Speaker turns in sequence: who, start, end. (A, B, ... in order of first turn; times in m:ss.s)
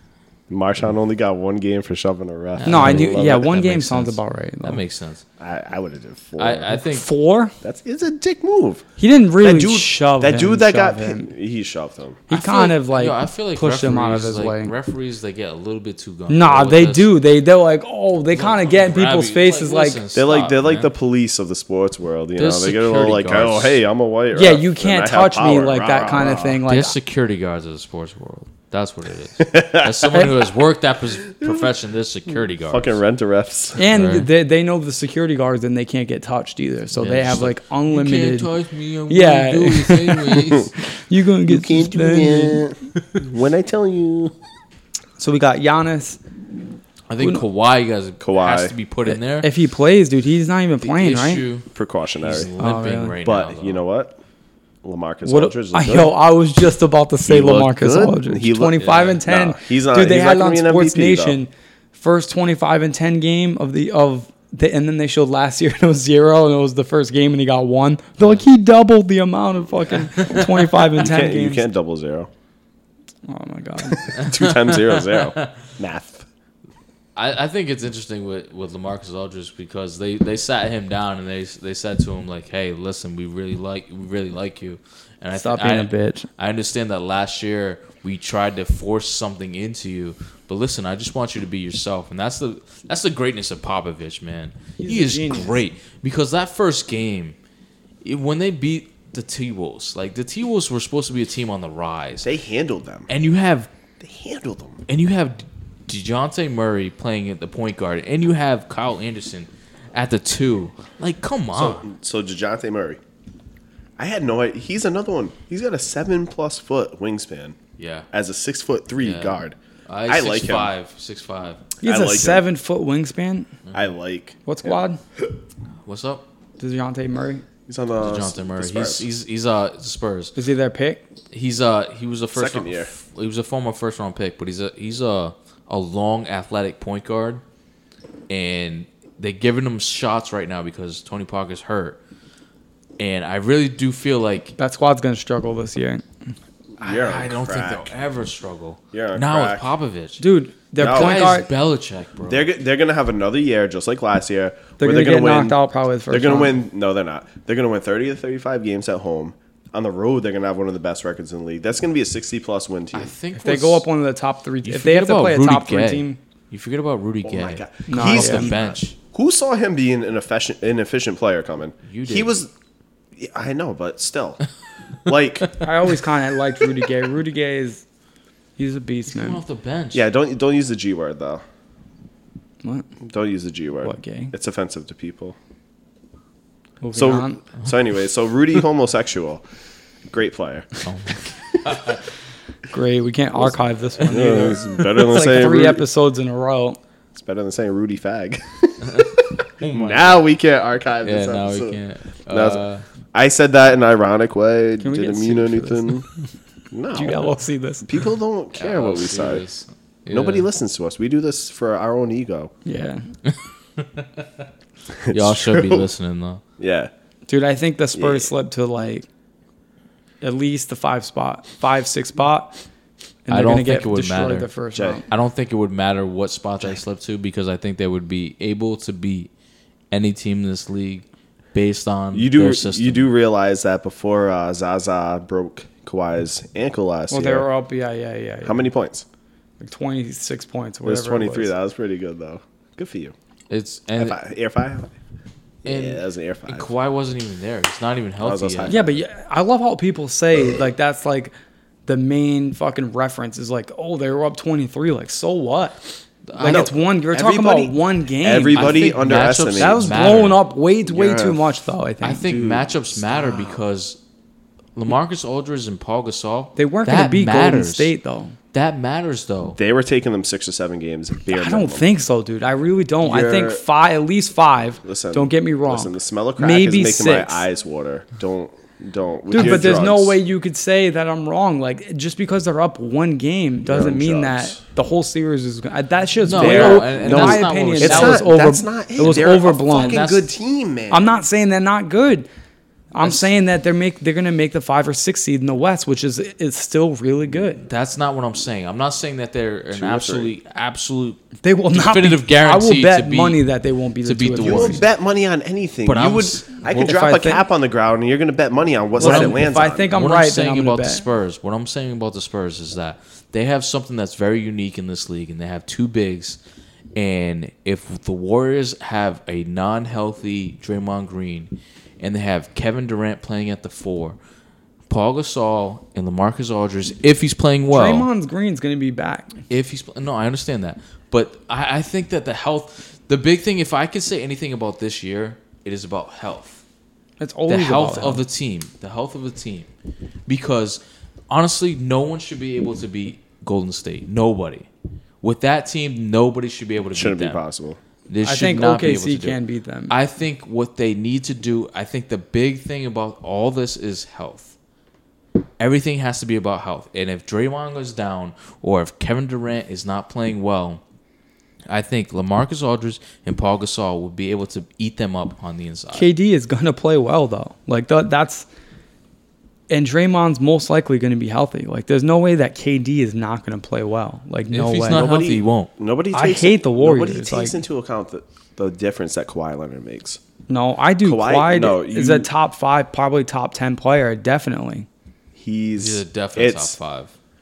0:00.5-0:03.5 A
0:02.6-0:05.2 B
0:02.6-0:04.8 C
0:05.4-0:06.7 A
0:06.4-0:07.0 B
0:06.7-0:07.5 C
0:07.6-0:08.8 A
0:09.0-0:11.3 C
0:09.4-0:12.3 A
0:12.3-0:14.7 C
0:12.3-0:17.1 B
0:16.3-0:20.0 C
0:18.3-0:20.9 B
0:20.1-0:26.6 A
0:22.4-0:23.8 B
0:24.3-0:26.9 C
0:26.6-0:32.9 B
0:29.4-0:30.3 A
0:31.3-0:31.6 A
0:32.6-0:33.8 A
0:33.8-0:38.5 C
0:33.9-0:34.3 B
0:36.9-0:40.7 B
0:39.1-0:40.5 C
0:41.1-0:42.6 C
0:41.5-0:44.3 A
0:45.2-0:46.2 C
0:47.1-0:49.5 B
0:48.2-0:48.7 A
0:49.0-0:51.4 C
0:50.8-0:51.7 B
0:51.7-0:52.5 A
0:52.2-0:53.8 B
0:52.6-0:53.2 C
0:53.2-0:54.2 A
0:54.8-0:56.1 A
0:55.2-1:11.6 C
0:57.2-1:01.4 A
0:58.8-0:59.2 B
1:10.2-1:10.5 B
1:11.0-1:12.3 A
1:13.2-1:14.1 C
1:13.9-1:16.2 A
1:14.1-1:15.6 B
1:17.1-1:37.4 B
1:25.3-1:26.3 C
1:34.8-1:35.6 C
1:38.0-1:42.3 B
1:42.2-1:43.1 A
1:43.1-1:43.7 B
1:44.0-1:44.8 A
1:44.9-1:51.9 B
1:51.5-1:53.0 A
1:54.0-1:57.6 A
1:57.8-1:58.1 B
1:58.1-1:59.6 A
1:59.0-2:01.6 B
2:00.1-2:00.7 A
2:01.8-2:02.4 A
2:01.8-2:03.5 C
2:03.7-2:04.8 A
2:04.4-2:05.0 C
2:05.8-2:06.3 B
2:06.6-2:07.4 C
2:07.7-2:09.1 A
2:08.0-2:10.3 B
2:10.4-2:11.0 C
2:11.3-2:17.4 B
2:12.3-2:12.9 A
2:18.3-2:22.0 B
2:23.0-2:24.5 B
2:24.6-2:26.0 C
2:26.8-2:28.0 A
2:26.8-2:30.2 B
2:28.9-2:29.7 A
2:30.2-2:31.5 C
2:30.8-2:31.2 A
2:30.8-2:32.5 B
2:32.3-2:35.6 A
2:34.8-2:36.6 C
2:36.1-2:43.1 A
2:42.9-2:43.9 B
2:43.3-2:46.2 C
2:44.6-2:49.0 B
2:47.2-2:52.5 A
2:47.9-2:48.5 C
2:51.8-2:52.4 B
2:53.2-2:54.4 A
2:55.0-2:55.6 A
2:55.6-2:57.8 C
2:58.6-2:59.4 C
2:59.1-3:00.0 B
2:59.9-3:01.4 A
3:03.0-3:05.4 A
3:03.8-3:04.3 C
3:06.8-3:07.4 C
3:06.9-3:09.4 A
3:10.1-3:10.7 A
3:10.8-3:12.0 B
3:12.7-3:16.8 C
3:14.0-3:15.8 A
3:17.1-3:26.1 A
3:18.8-3:20.2 B
3:21.0-3:22.8 B
3:24.8-3:26.0 C
3:26.7-3:29.4 A
3:26.9-3:27.9 C
3:28.6-3:30.5 B
3:30.1-3:32.5 A
3:32.6-3:33.0 C
3:33.2-3:34.3 B
3:35.0-3:35.9 A
3:35.1-3:36.4 B
3:36.6-3:36.9 A
3:37.3-3:39.0 C
3:37.9-3:38.3 A
3:40.2-3:42.6 C
3:43.2-3:45.0 C
3:43.3-3:44.5 B
3:44.7-3:45.0 A
3:45.1-3:49.3 B
3:49.9-3:53.1 B
3:52.1-3:57.4 A
3:57.1-3:58.7 C
3:58.4-3:59.0 A
3:59.6-4:01.5 C
4:00.8-4:03.1 A
4:03.5-4:04.2 B
4:04.0-4:04.9 A
4:05.6-4:06.7 A
4:05.6-4:08.7 B
4:08.2-4:09.0 A
4:08.7-4:11.3 C
4:11.8-4:15.8 C
4:16.3-4:16.7 B
4:16.3-4:19.0 C
4:16.4-4:21.5 A
4:18.5-4:20.4 B
4:19.5-4:22.3 C
4:22.0-4:24.0 B
4:22.2-4:23.6 A
4:24.7-4:27.9 B
4:26.6-4:28.4 C
4:28.5-4:29.6 B
4:29.5-4:31.9 A
4:31.3-4:37.4 C
4:33.0-4:33.6 A
4:34.8-4:40.2 A
4:39.3-4:50.0 C
4:39.3-4:39.7 B
4:43.6-4:44.6 A
4:46.2-4:48.3 B
4:46.3-4:51.2 A
4:49.0-4:50.3 B
4:50.9-4:52.3 C
4:52.9-4:57.6 C
4:57.6-5:03.4 B
4:59.7-5:00.3 A
5:01.4-5:04.8 C
5:04.0-5:04.8 B
5:04.4-5:09.9 A
5:05.8-5:06.6 B
5:06.6-5:07.4 C
5:09.0-5:11.0 C
5:09.0-5:16.4 B
5:16.9-5:24.2 B
5:24.9-5:28.1 B
5:27.7-5:29.3 C
5:29.5-5:36.6 B
5:37.2-5:38.2 C
5:37.5-5:39.7 B
5:40.3-5:44.7 B
5:45.2-5:47.4 B
5:46.9-5:47.8 A
5:48.1-5:49.4 B
5:48.2-5:49.9 C
5:49.9-5:54.5 B
5:55.6-6:00.8 B
6:01.7-6:06.1 B
6:05.9-6:08.5 C
6:09.7-6:15.0 C
6:14.5-6:15.7 B
6:14.9-6:20.2 A
6:16.1-6:17.6 C
6:20.5-6:24.9 C
6:21.0-6:22.3 A
6:25.4-6:26.8 A
6:25.8-6:27.1 B